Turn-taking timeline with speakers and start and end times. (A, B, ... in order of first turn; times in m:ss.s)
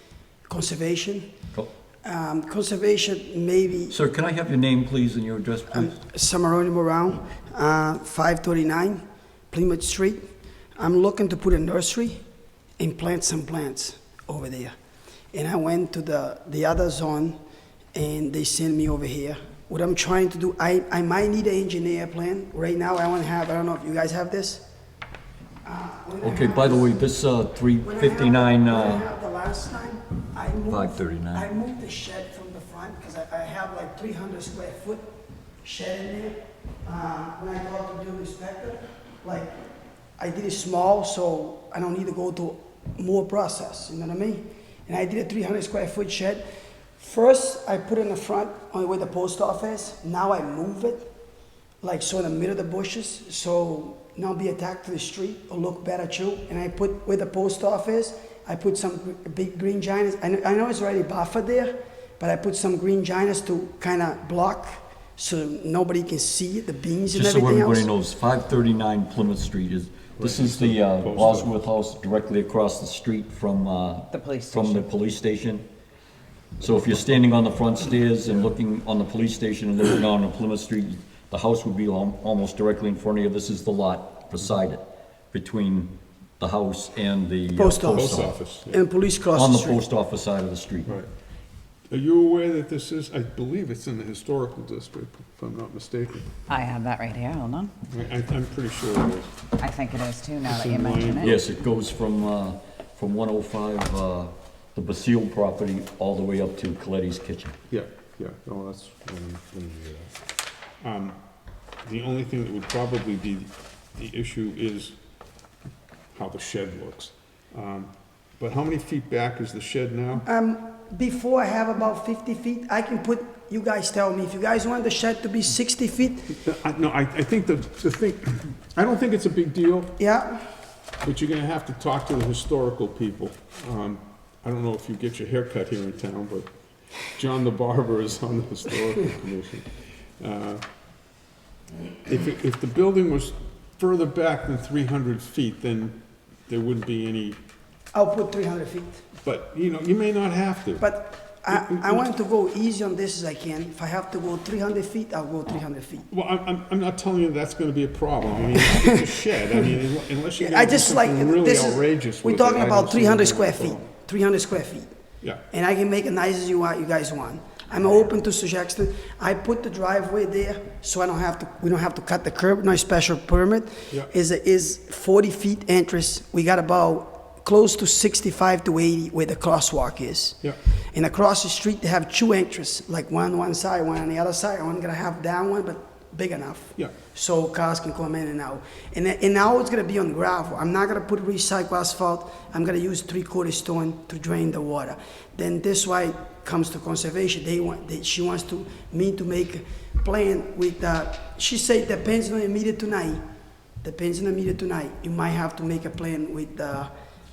0:00.5-0:01.3 A
0:02.0-0:04.0 A
0:03.9-0:06.0 B
0:05.7-0:12.2 A
0:12.8-0:14.8 A
0:15.3-0:17.4 A
0:17.9-0:24.6 A
0:25.6-0:27.0 A
0:26.2-0:29.0 B
0:27.8-0:35.1 A
0:30.7-0:31.5 B
0:35.6-0:39.5 A
0:40.2-0:46.5 A
0:47.0-0:51.1 A
0:51.8-1:07.9 A
1:07.1-1:15.7 B
1:10.2-1:11.5 C
1:14.1-1:14.9 D
1:16.6-1:28.4 B
1:27.5-1:29.8 A
1:27.9-1:28.8 C
1:29.3-1:31.0 B
1:31.9-1:36.3 C
1:36.5-1:37.7 D
1:37.9-1:39.4 C
1:39.6-1:41.4 D
1:40.4-1:41.4 C
1:41.2-1:47.6 B
1:47.7-1:50.2 C
1:50.8-1:51.2 C
1:51.8-1:55.0 C
1:56.1-2:00.2 C
2:00.2-2:06.4 A
2:06.4-2:10.0 C
2:10.0-2:10.4 A
2:11.0-2:20.6 C
2:22.0-2:27.4 C
2:27.9-2:29.0 A
2:29.2-2:30.9 C
2:30.8-2:36.1 A
2:31.5-2:32.1 C
2:36.1-2:43.9 C
2:40.4-2:44.9 A
2:45.5-3:23.2 A
3:23.8-3:26.9 A